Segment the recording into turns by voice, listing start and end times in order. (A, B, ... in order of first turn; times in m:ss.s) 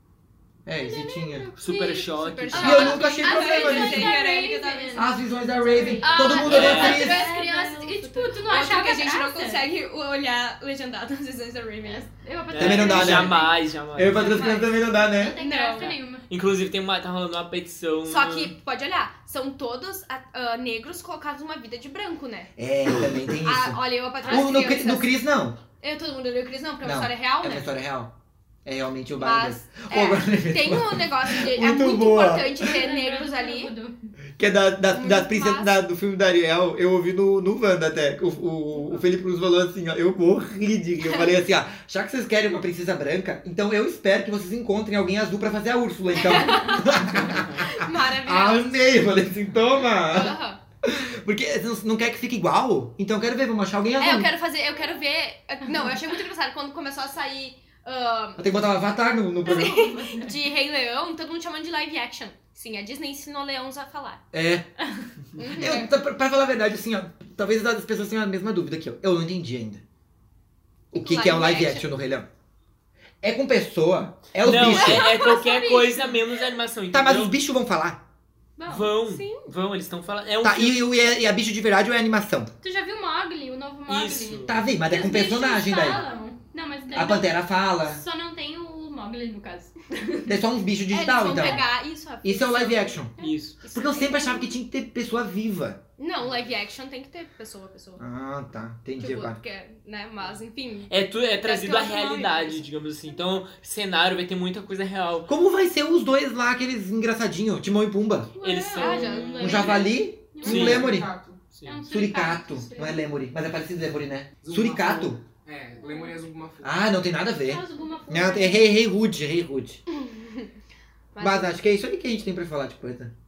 0:00.6-0:01.5 A
0:00.8-0:05.1 B
0:01.6-0:03.0 C
0:02.2-0:05.1 D
0:02.5-0:04.2 A
0:04.9-0:07.3 A
0:05.6-0:09.7 B
0:05.8-0:12.1 D
0:06.4-0:07.2 C
0:11.8-0:13.6 B
0:12.5-0:14.4 C
0:12.6-0:13.4 A
0:13.9-0:15.4 A
0:14.1-0:16.2 B
0:15.4-0:16.0 D
0:15.8-0:18.5 C
0:18.0-0:22.5 D
0:22.6-0:25.6 A
0:23.4-0:25.1 D
0:24.2-0:24.5 B
0:25.8-0:27.7 D
0:26.8-0:32.7 A
0:29.2-0:33.7 D
0:32.6-0:34.1 B
0:34.4-0:54.3 A
0:34.9-0:35.7 D
0:46.2-0:48.7 D
0:50.1-0:50.6 D
0:54.0-0:58.5 D
0:58.4-0:59.8 A
0:59.4-1:00.4 B
0:59.4-1:04.2 D
1:04.3-1:04.7 A
1:05.4-1:05.9 D
1:05.5-1:09.8 A
1:10.9-1:12.3 A
1:10.9-1:11.9 D
1:13.2-1:15.0 A
1:14.4-1:17.3 C
1:14.8-1:16.2 B
1:14.8-1:15.3 D
1:16.9-1:18.0 A
1:18.6-1:18.9 B
1:18.7-1:20.9 C
1:19.0-1:19.5 D
1:20.4-1:22.5 A
1:22.6-1:30.3 B
1:23.9-1:24.6 C
1:24.5-1:26.0 A
1:26.9-1:28.0 A
1:30.3-1:31.7 A
1:30.9-1:33.1 D
1:32.2-1:33.1 A
1:33.2-1:33.6 C
1:33.6-1:34.5 D
1:33.7-1:35.8 A
1:36.0-1:38.0 D
1:38.0-1:39.4 A
1:39.0-1:42.6 D
1:40.9-1:45.3 C
1:45.3-1:48.3 A
1:48.4-1:50.8 B
1:48.4-1:49.8 C
1:48.8-1:49.8 D
1:49.4-1:51.1 A
1:50.4-1:51.0 C
1:50.4-1:51.4 E
1:51.5-1:51.8 C
1:51.6-1:53.1 B
1:51.9-1:55.2 A
1:54.4-1:56.9 E
1:55.8-1:56.1 B
1:56.6-1:59.8 A
1:57.4-1:58.8 B
1:59.9-2:00.5 D
2:01.1-2:01.6 D
2:01.2-2:03.1 A